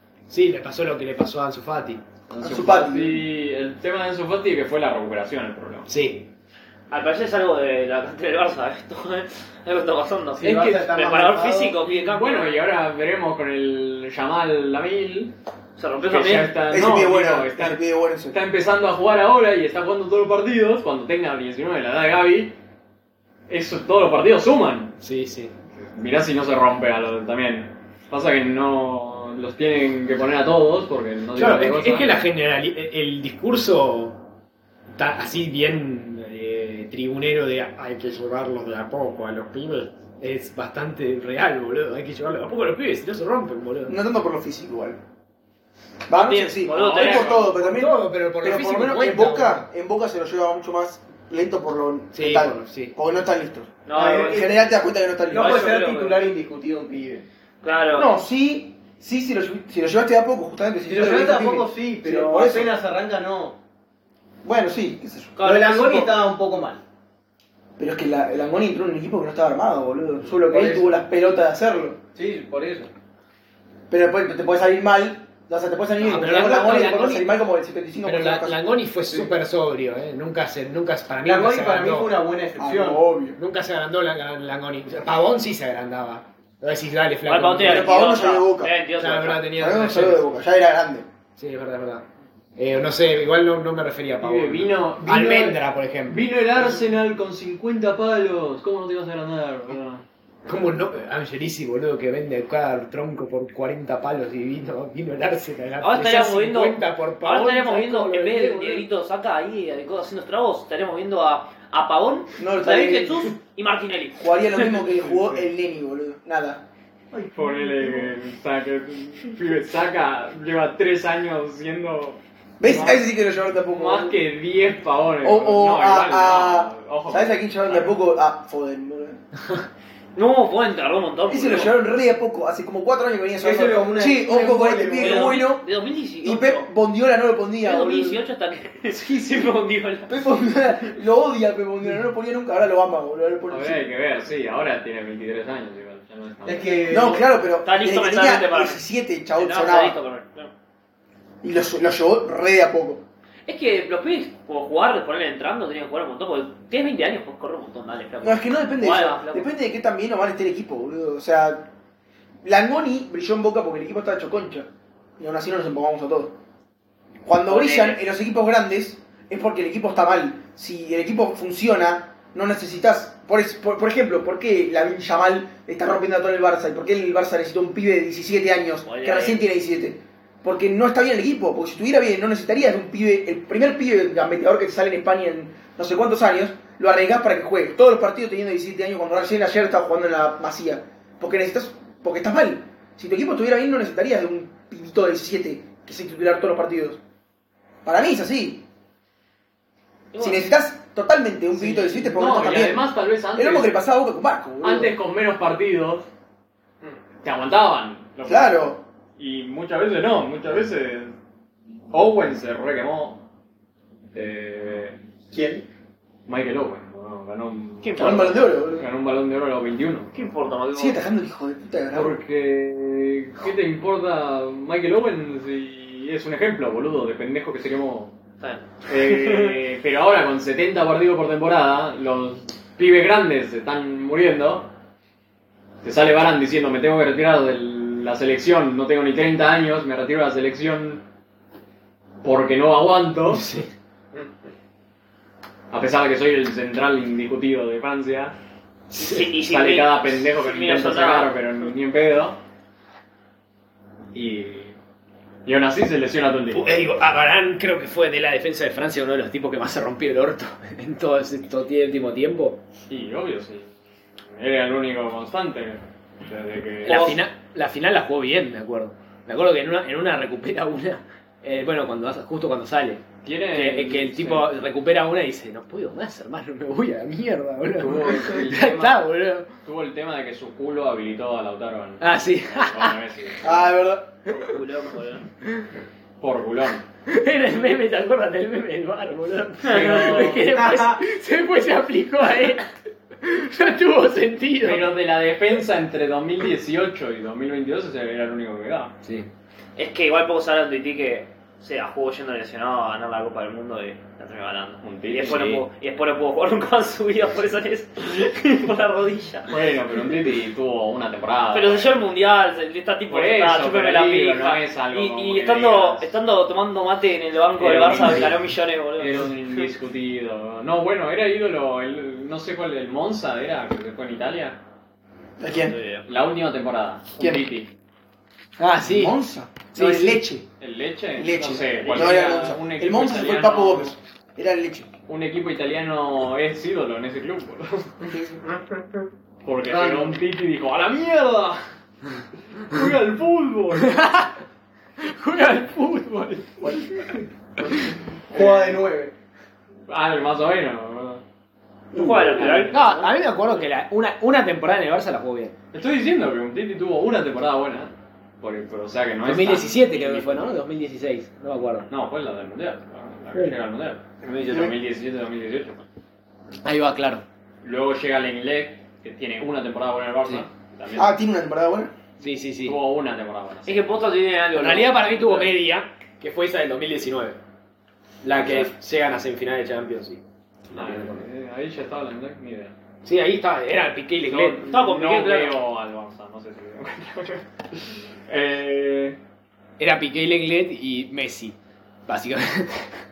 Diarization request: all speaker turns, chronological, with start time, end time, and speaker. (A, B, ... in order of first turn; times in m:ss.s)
0:00.3-0:02.1 A
0:02.3-0:05.9 B
0:02.4-0:03.2 C
0:05.9-0:06.3 A
0:06.9-0:12.5 D
0:10.3-0:11.8 E
0:10.4-0:10.8 A
0:11.8-0:15.3 B
0:15.8-0:16.6 D
0:16.0-0:22.5 B
0:16.7-0:18.4 C
0:23.5-0:24.9 B
0:25.0-0:25.5 A
0:25.7-0:32.2 B
0:31.3-0:34.2 A
0:35.0-0:44.0 A
0:43.8-0:45.0 C
0:46.1-0:55.7 C
0:46.1-0:47.5 D
0:46.7-0:47.5 B
0:47.5-0:49.7 A
0:52.1-0:52.9 A
0:53.8-0:54.6 D
0:53.9-0:54.5 E
0:55.3-0:57.2 E
0:55.3-0:56.2 D
0:57.6-0:58.1 D
0:57.9-1:02.7 C
1:00.9-1:03.6 E
1:04.4-1:06.0 C
1:05.4-1:06.1 D
1:05.4-1:06.8 E
1:07.8-1:12.0 C
1:10.2-1:10.9 E
1:12.1-1:12.9 E
1:13.9-1:18.6 C
1:16.0-1:17.3 A
1:18.0-1:22.2 A
1:21.2-1:23.0 E
1:22.6-1:23.4 C
1:23.3-1:28.0 A
1:27.2-1:29.5 D
1:27.6-1:28.7 C
1:29.0-1:30.3 A
1:29.6-1:31.1 C
1:31.4-1:32.0 A
1:32.6-1:36.3 A
1:34.2-1:40.0 B
1:40.5-1:48.8 A
1:45.8-1:54.8 D
1:52.4-1:53.3 C
1:54.2-1:56.6 C
1:57.1-1:57.8 E
1:57.3-2:03.0 B
2:02.6-2:04.2 C
2:03.6-2:08.0 B
2:05.2-2:09.2 C
2:10.1-2:11.8 D
2:11.3-2:15.6 C
2:13.4-2:15.4 E
2:14.9-2:16.7 D
2:16.2-2:18.2 C
2:17.6-2:20.1 D
2:20.1-2:23.8 C
2:23.5-2:27.0 B
2:26.4-2:27.2 E
2:26.9-2:30.0 C
2:27.6-2:28.8 D
2:29.4-2:30.5 D
2:31.4-2:33.0 C
2:33.5-2:39.5 D
2:38.2-2:41.7 C
2:42.4-2:44.7 C
2:45.2-2:46.3 C
2:47.2-3:17.0 C
2:47.5-2:48.0 D
2:58.8-2:59.4 D
3:17.8-3:18.6 C
3:20.1-3:20.4 D
3:20.2-3:24.9 C
3:21.5-3:23.7 B
3:24.6-3:26.1 B
3:27.2-3:31.1 B
3:28.2-3:28.8 C
3:31.9-3:33.2 B
3:34.1-3:35.0 B
3:35.3-3:35.6 E
3:36.2-3:40.1 B
3:37.8-3:38.3 D
3:38.0-3:38.9 C
3:40.1-3:41.0 D
3:40.7-3:42.2 C
3:41.9-3:48.1 B
3:48.4-3:49.6 D
3:48.8-3:54.7 B
3:55.8-4:01.0 B
4:02.2-4:03.4 B
4:03.3-4:03.7 A
4:05.7-4:08.3 B
4:08.9-4:09.2 A
4:09.0-4:11.4 D
4:09.4-4:12.4 B
4:14.1-4:14.7 B
4:15.4-4:16.6 B
4:16.5-4:22.6 A
4:22.9-4:23.7 B
4:24.4-4:27.2 B
4:26.8-4:39.5 A
4:26.8-4:27.2 D
4:33.2-4:34.5 B
4:37.8-4:39.1 B
4:39.6-4:43.7 B
4:42.0-4:43.0 A
4:43.4-4:44.4 C
4:44.3-4:45.3 D
4:46.2-4:46.8 B
4:47.1-4:52.7 A
4:49.6-4:50.6 B
4:49.6-4:50.3 D
4:50.5-4:50.8 E
4:53.2-4:54.9 A
4:54.6-4:58.9 B
4:59.8-5:09.6 D
5:04.8-5:05.6 B
5:09.5-5:12.0 B
5:11.5-5:19.7 D
5:13.1-5:16.1 B
5:17.6-5:24.6 B
5:25.4-5:25.8 C
5:25.5-5:26.0 D
5:26.0-5:27.7 B
5:28.6-5:29.2 A
5:28.8-5:30.5 C
5:29.7-5:30.2 A
5:30.6-5:33.9 B
5:31.2-5:34.9 C
5:35.1-5:37.9 B
5:38.1-5:38.4 C
5:39.4-5:41.6 B
5:39.6-5:40.2 E
5:42.5-5:44.2 B
5:43.8-5:44.3 A
5:45.2-5:45.8 A
5:45.2-5:46.6 B
5:46.6-5:46.9 C
5:48.3-5:48.9 B
5:48.3-5:49.1 E
5:49.9-5:51.2 B
5:51.9-5:53.1 D
5:52.0-5:52.3 E
5:52.3-5:52.9 B
5:52.7-5:55.5 A
5:55.7-6:00.5 B
5:59.2-6:01.9 A
6:01.9-6:05.8 B
6:04.3-6:04.7 E
6:06.6-6:07.2 A
6:07.6-6:11.1 B
6:10.9-6:11.9 C
6:12.2-6:12.8 A
6:12.6-6:13.8 B
6:13.6-6:15.5 D
6:14.5-6:17.4 A
6:18.2-6:21.2 A
6:18.3-6:18.7 B
6:20.7-6:22.7 B
6:23.0-6:24.6 A
6:24.2-6:29.2 B
6:24.6-6:25.6 D
6:29.8-6:31.6 A
6:32.1-6:33.0 A